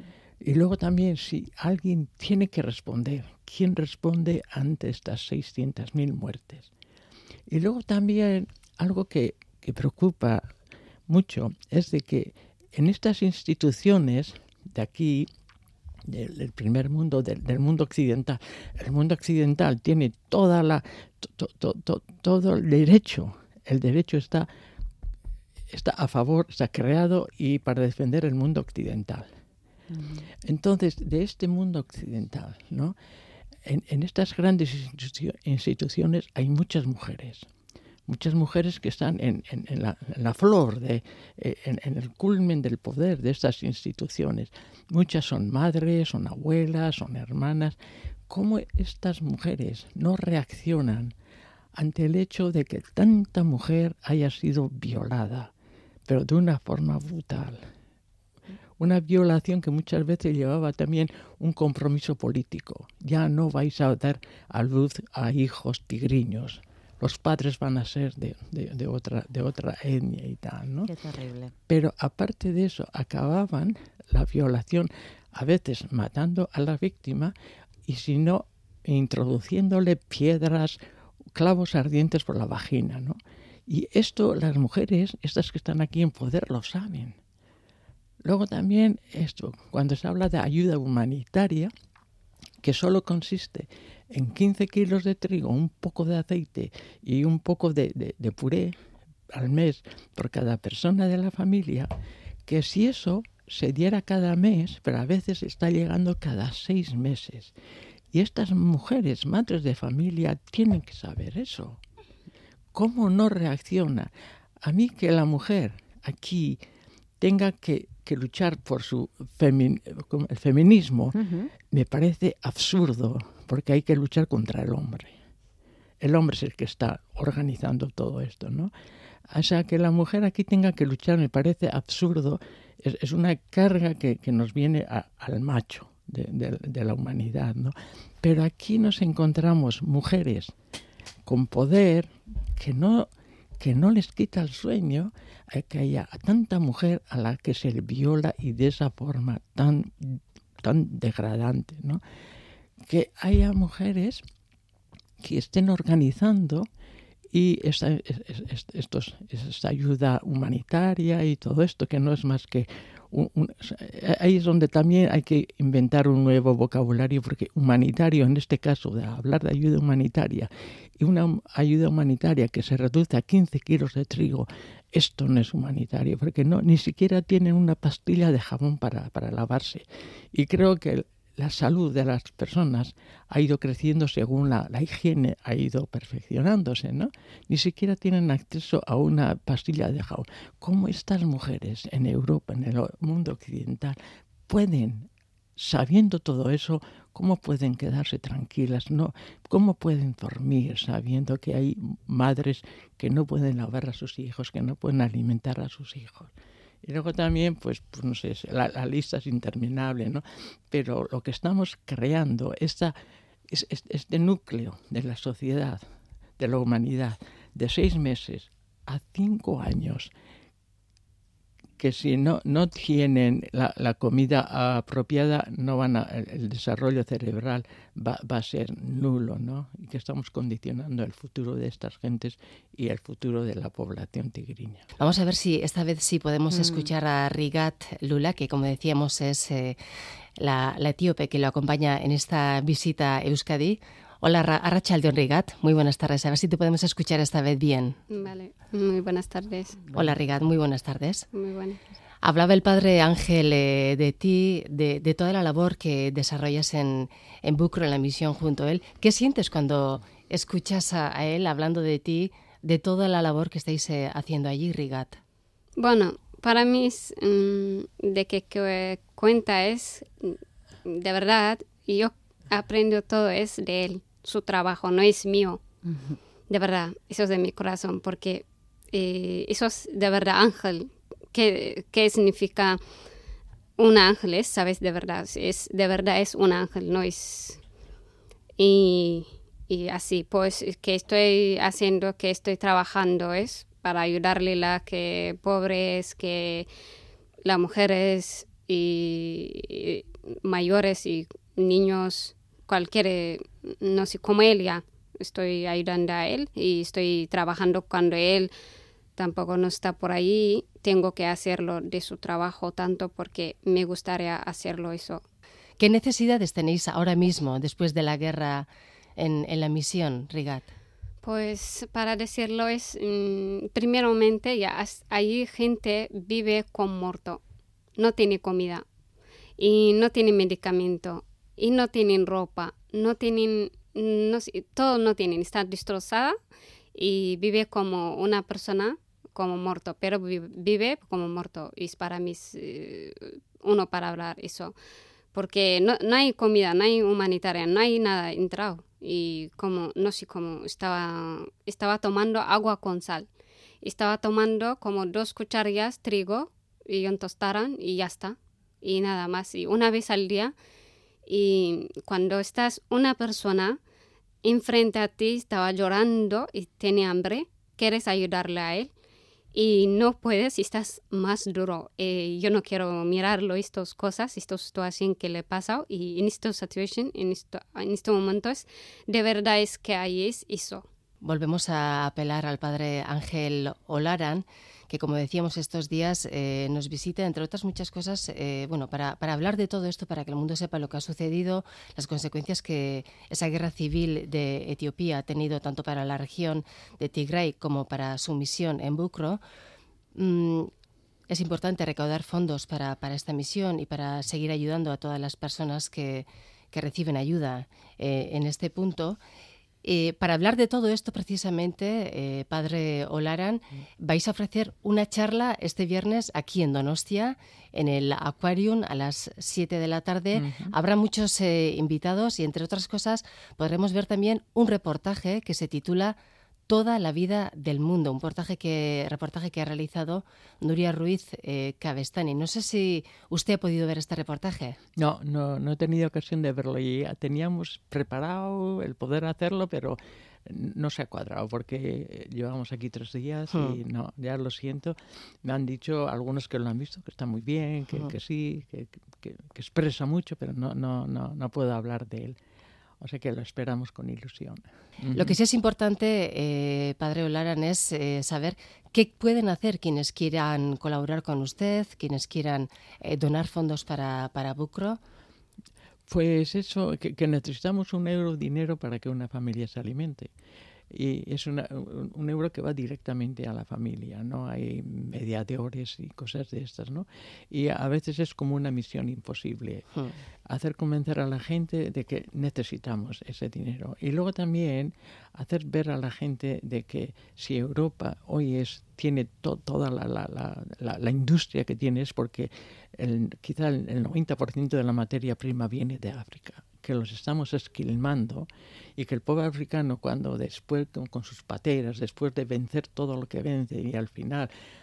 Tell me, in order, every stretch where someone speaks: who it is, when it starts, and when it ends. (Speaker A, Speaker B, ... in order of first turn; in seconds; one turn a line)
Speaker A: 0.4-6.7
Speaker A: 7.5-10.4
Speaker A: 11.1-15.3
Speaker A: 16.1-24.5
Speaker A: 25.7-29.3
Speaker B: 29.9-30.3
Speaker A: 30.4-32.9
Speaker A: 33.6-37.5
Speaker A: 38.1-47.8
Speaker A: 48.3-51.1
Speaker A: 51.8-55.5
Speaker A: 56.1-57.6
Speaker A: 58.8-70.9
Speaker B: 71.0-71.5
Speaker A: 71.7-77.3
Speaker A: 77.9-80.8
Speaker A: 81.3-83.2
Speaker A: 83.7-87.2
Speaker A: 88.2-91.7
Speaker A: 92.6-98.7
Speaker A: 99.3-101.9
Speaker A: 102.5-107.5
Speaker A: 108.1-111.8
Speaker A: 112.7-114.1
Speaker A: 114.6-116.6
Speaker A: 117.2-121.2
Speaker B: 121.1-121.5
Speaker A: 121.7-125.1
Speaker A: 126.0-128.7
Speaker A: 129.3-140.5
Speaker A: 141.2-143.1
Speaker A: 143.6-152.0
Speaker A: 152.9-154.2
Speaker A: 155.2-156.6
Speaker A: 157.3-194.0
Speaker A: 194.5-206.3
Speaker A: 206.8-212.9
Speaker A: 213.5-215.8
Speaker A: 216.4-220.1
Speaker A: 221.8-234.8
Speaker C: 235.0-239.8
Speaker B: 236.5-236.9
Speaker C: 240.4-248.0
Speaker D: 248.1-249.8
Speaker C: 249.9-251.3
Speaker D: 251.3-251.8
Speaker C: 252.2-265.2
Speaker D: 265.8-275.6
Speaker B: 275.8-276.2
Speaker D: 276.5-282.8
Speaker D: 283.8-287.6
Speaker D: 288.6-296.7
Speaker D: 297.4-308.5
Speaker D: 309.2-315.2
Speaker C: 315.8-320.7
Speaker D: 321.2-327.4
Speaker D: 327.9-328.8
Speaker D: 329.6-336.4
Speaker D: 336.9-344.8
Speaker D: 345.3-353.3
Speaker D: 353.8-360.6
Speaker D: 361.2-363.8
Speaker D: 364.4-368.9
Speaker D: 369.5-380.9
Speaker C: 381.2-399.4
Speaker C: 400.1-400.7
Speaker C: 401.3-409.2
Speaker C: 409.8-426.1
Speaker A: 420.3-420.7
Speaker C: 426.7-434.8
Speaker A: 435.0-452.4
Speaker C: 443.5-443.8
Speaker A: 453.0-455.4
Speaker C: 455.1-465.0
Speaker A: 466.1-470.3
Speaker A: 470.9-479.9
Speaker A: 480.5-504.5